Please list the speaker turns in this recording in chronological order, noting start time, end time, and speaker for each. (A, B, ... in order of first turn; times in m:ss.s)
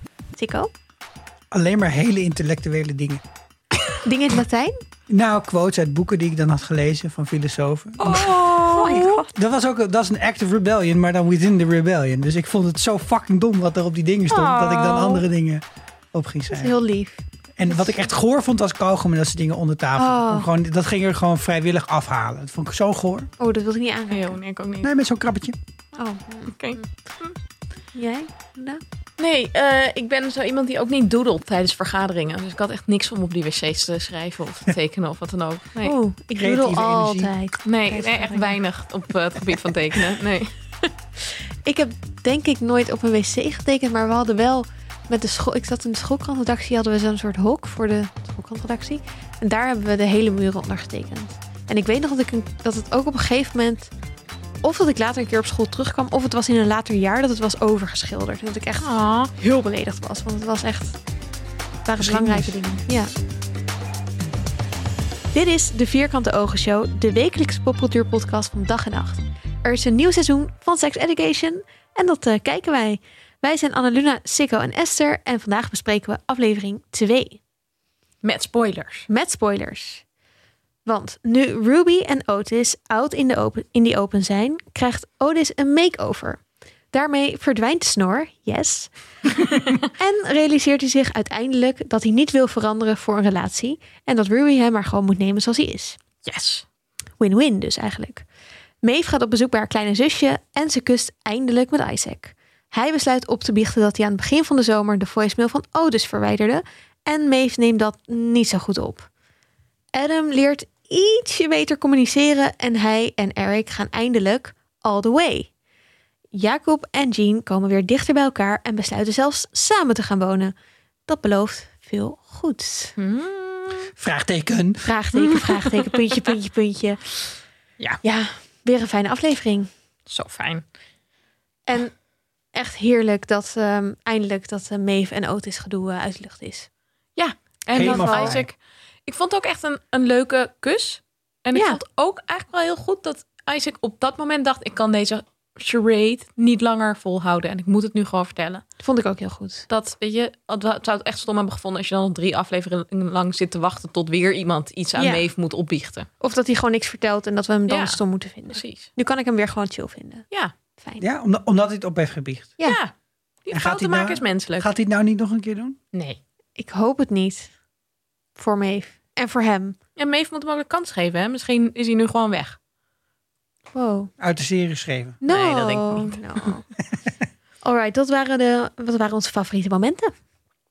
0:00.3-0:00.7 A
0:01.5-0:03.2 B
0:04.0-0:04.7 A
0:05.1-0:08.4 B
0:08.0-0:09.2 C
0:08.0-0:09.3 A
0:09.3-0:16.7 B
0:14.3-0:15.2 C
0:16.5-0:18.0 A
0:17.6-0:23.3 B
0:20.0-0:20.5 A
0:23.4-0:24.4 A
0:24.1-0:24.9 C
0:24.8-0:25.6 B
0:26.0-0:26.9 A
0:26.5-0:27.3 C
0:27.9-0:28.8 A
0:29.2-0:35.9 C
0:35.8-0:38.6 A
0:36.4-0:37.3 B
0:37.6-0:40.9 C
0:41.6-0:53.9 A
0:54.6-1:01.0 A
0:58.8-0:59.3 C
1:01.8-1:03.1 A
1:02.0-1:02.6 B
1:05.3-1:17.4 A
1:18.2-1:19.1 C
1:19.1-1:20.0 A
1:20.8-1:26.4 A
1:26.9-1:28.9 A
1:30.0-1:36.0 A
1:36.2-1:36.6 C
1:37.2-1:38.2 A
1:38.8-1:49.1 A
1:49.9-1:55.5 A
1:56.3-2:00.5 A
2:01.1-2:03.0 A
2:03.0-2:03.9 C
2:04.0-2:04.9 B
2:04.8-2:07.0 A
2:05.3-2:06.2 C
2:08.0-2:09.7 A
2:10.1-2:10.6 C
2:11.7-2:11.9 A
2:12.5-2:16.7 A
2:17.2-2:28.6 C
2:17.7-2:18.4 A
2:17.7-2:18.4 B
2:21.5-2:21.8 A
2:28.8-2:29.6 A
2:29.7-2:36.1 C
2:35.0-2:35.2 A
2:36.2-2:40.2 A
2:37.7-2:38.0 C
2:38.5-2:38.9 C
2:40.8-2:41.0 A
2:41.0-2:42.6 B
2:42.6-2:42.9 C
2:43.5-2:44.7 C
2:43.5-2:45.8 B
2:45.9-2:46.2 C
2:46.6-2:47.5 A
2:48.3-2:49.8 A
2:50.0-2:52.6 C
2:53.7-2:54.1 A
2:54.2-2:55.2 B
2:55.2-2:56.7 A
2:55.3-2:56.5 C
2:57.6-3:00.1 A